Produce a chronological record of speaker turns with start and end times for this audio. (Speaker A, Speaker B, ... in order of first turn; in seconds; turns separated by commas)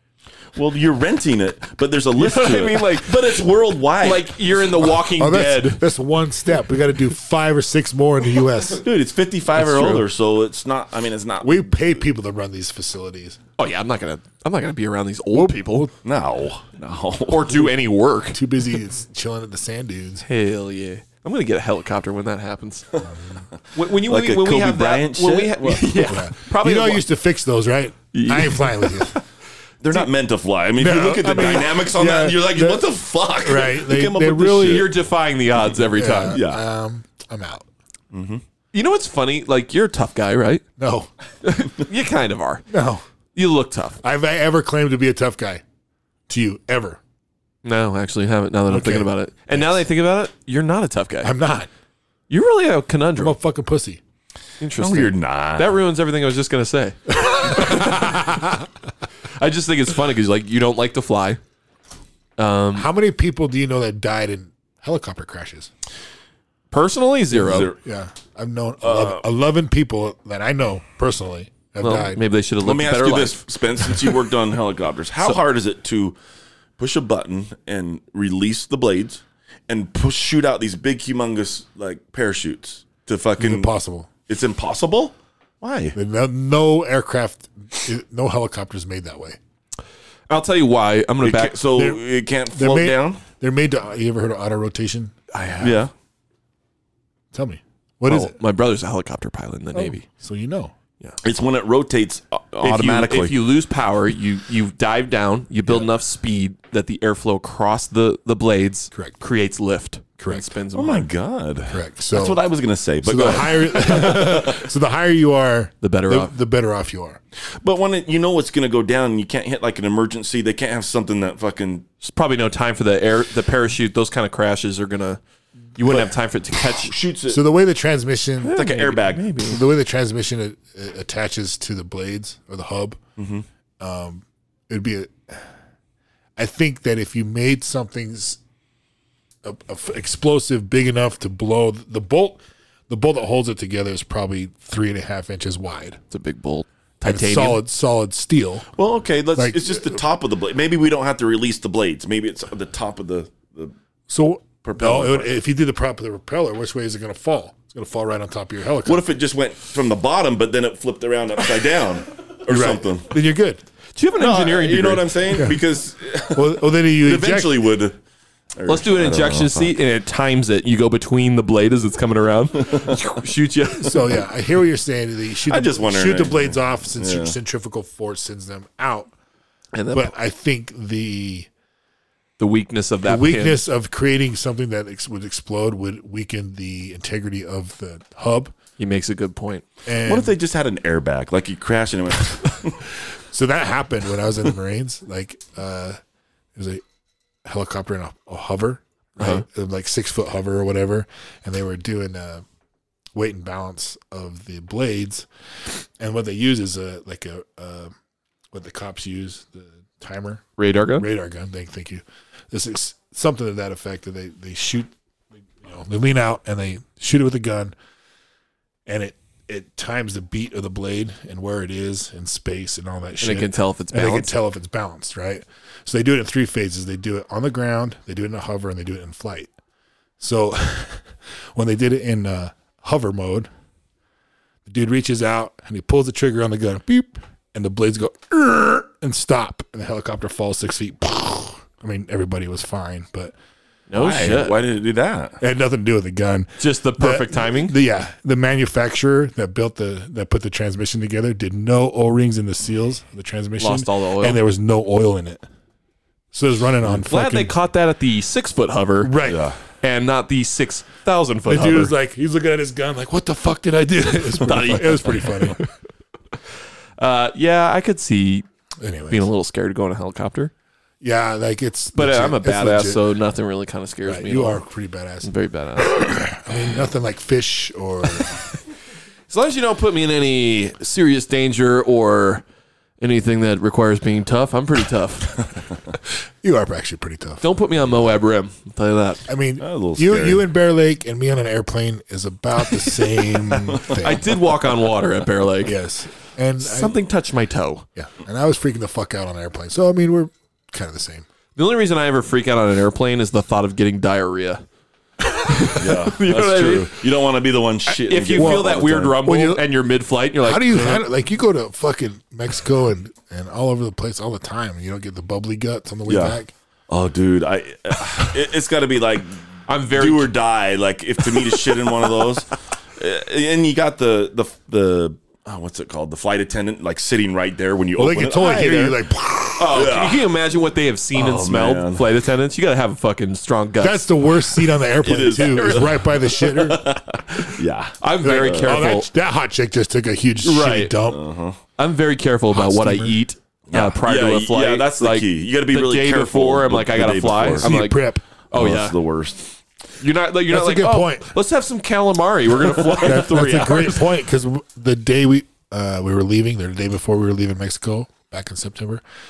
Speaker A: 0.6-4.3, Speaker B: 2.1-3.4, Speaker B: 4.0-5.8, Speaker C: 5.1-8.8, Speaker A: 8.8-11.7, Speaker B: 9.6-10.0, Speaker C: 11.4-13.4, Speaker B: 13.6-15.9, Speaker C: 15.3-15.9, Speaker A: 16.0-17.7, Speaker B: 17.3-18.4, Speaker C: 18.3-20.2, Speaker B: 20.2-23.0, Speaker C: 23.0-23.4, Speaker B: 23.7-27.1, Speaker A: 23.8-26.2, Speaker C: 26.0-29.2, Speaker B: 28.1-29.2, Speaker A: 29.8-34.9, Speaker C: 30.8-34.9, Speaker B: 34.6-36.4, Speaker C: 35.9-37.6, Speaker A: 36.3-36.6, Speaker A: 38.1-38.4, Speaker B: 38.7-40.6, Speaker C: 40.8-41.1, Speaker B: 41.4-42.6, Speaker C: 42.7-43.0, Speaker B: 43.3-44.0, Speaker C: 44.0-45.6, Speaker C: 46.3-47.0, Speaker B: 47.6-51.3, Speaker C: 48.7-49.7, Speaker C: 51.2-51.7, Speaker B: 52.3-53.4, Speaker C: 53.2-54.0, Speaker B: 54.6-58.5, Speaker A: 54.8-55.8, Speaker C: 57.3-58.5, Speaker B: 59.4-61.4, Speaker B: 62.4-62.9, Speaker C: 62.7-65.7, Speaker B: 66.7-67.7, Speaker C: 67.3-72.2, Speaker A: 67.4-67.8, Speaker A: 68.8-69.2, Speaker B: 71.8-74.0, Speaker A: 72.6-76.2, Speaker A: 76.8-83.7, Speaker C: 83.4-84.1, Speaker A: 84.3-85.9, Speaker C: 85.9-89.4, Speaker B: 90.3-91.6, Speaker A: 91.2-93.2, Speaker C: 91.7-95.1, Speaker B: 95.3-95.8, Speaker A: 95.6-95.9, Speaker C: 97.3-98.3, Speaker B: 98.0-100.1, Speaker C: 99.7-100.7, Speaker A: 101.2-103.4, Speaker B: 102.6-111.1, Speaker C: 108.9-109.2, Speaker C: 110.2-110.4, Speaker A: 110.7-114.6, Speaker C: 111.7-112.4, Speaker C: 113.0-117.2, Speaker B: 115.8-116.3, Speaker A: 117.6-121.9, Speaker B: 122.0-125.2, Speaker B: 125.8-126.9, Speaker A: 125.9-126.1, Speaker A: 126.7-127.4, Speaker C: 127.3-128.6, Speaker B: 128.4-129.6, Speaker A: 128.5-129.2, Speaker C: 129.4-133.0, Speaker A: 133.2-133.4, Speaker C: 133.8-135.4, Speaker C: 136.4-138.4, Speaker C: 139.4-146.0, Speaker B: 146.1-147.6, Speaker C: 147.0-148.7, Speaker A: 148.8-153.7, Speaker C: 149.3-150.0, Speaker C: 154.1-159.0, Speaker A: 154.6-155.4, Speaker A: 158.8-163.1, Speaker C: 162.5-163.6, Speaker B: 163.9-165.5, Speaker A: 164.2-167.9, Speaker C: 165.3-165.6, Speaker C: 166.3-167.7, Speaker A: 168.6-169.7, Speaker B: 168.7-174.2, Speaker A: 172.7-173.0, Speaker C: 173.8-179.1, Speaker A: 175.4-177.3, Speaker B: 179.7-180.1, Speaker C: 179.9-181.5, Speaker B: 182.4-183.6, Speaker C: 183.0-188.5, Speaker B: 188.8-189.6, Speaker C: 189.8-190.3, Speaker A: 190.0-192.8, Speaker C: 193.3-196.0, Speaker C: 196.6-196.8, Speaker C: 197.4-202.4, Speaker B: 199.2-199.4, Speaker C: 203.1-207.9, Speaker C: 208.5-210.4, Speaker B: 210.6-211.1, Speaker C: 211.0-214.9, Speaker C: 215.5-217.7, Speaker C: 218.8-229.5, Speaker B: 223.2-224.3, Speaker C: 230.2-233.5, Speaker C: 234.7-243.3, Speaker B: 243.9-244.6, Speaker A: 243.9-245.4, Speaker C: 245.4-255.4, Speaker B: 246.6-247.7, Speaker B: 253.6-254.4, Speaker C: 256.3-257.5, Speaker B: 257.0-261.9, Speaker C: 259.0-259.5, Speaker A: 259.2-259.6, Speaker C: 261.5-265.6, Speaker B: 264.4-265.7, Speaker A: 264.5-264.8, Speaker B: 267.0-268.4, Speaker C: 268.8-269.3, Speaker B: 269.1-270.5, Speaker C: 271.0-273.0, Speaker B: 271.9-274.6, Speaker C: 274.0-278.4, Speaker B: 275.2-276.4, Speaker B: 279.3-282.4, Speaker B: 283.0-285.5, Speaker C: 286.4-287.4, Speaker B: 287.4-289.2, Speaker C: 289.3-294.3, Speaker A: 289.6-290.4, Speaker B: 292.8-295.8, Speaker C: 295.6-297.0, Speaker B: 296.6-297.9, Speaker C: 297.9-301.2, Speaker B: 301.6-304.6, Speaker B: 305.2-307.0, Speaker A: 305.7-309.2, Speaker B: 307.9-311.0, Speaker C: 308.3-309.6, Speaker C: 310.4-316.5, Speaker A: 316.1-316.4, Speaker A: 316.9-328.9, Speaker B: 319.7-320.3, Speaker C: 327.9-329.9, Speaker B: 328.4-328.8, Speaker B: 329.6-334.1, Speaker A: 329.7-330.3, Speaker A: 331.1-332.1, Speaker C: 333.8-336.8, Speaker A: 335.0-338.9, Speaker B: 335.2-335.9, Speaker B: 338.0-339.1, Speaker C: 338.2-341.2, Speaker B: 340.4-340.9, Speaker A: 341.1-341.6, Speaker B: 341.8-348.9, Speaker C: 342.5-343.2, Speaker A: 343.7-347.7, Speaker C: 347.6-348.2, Speaker A: 348.5-349.5, Speaker B: 350.0-354.1, Speaker C: 350.5-351.3, Speaker C: 352.9-359.0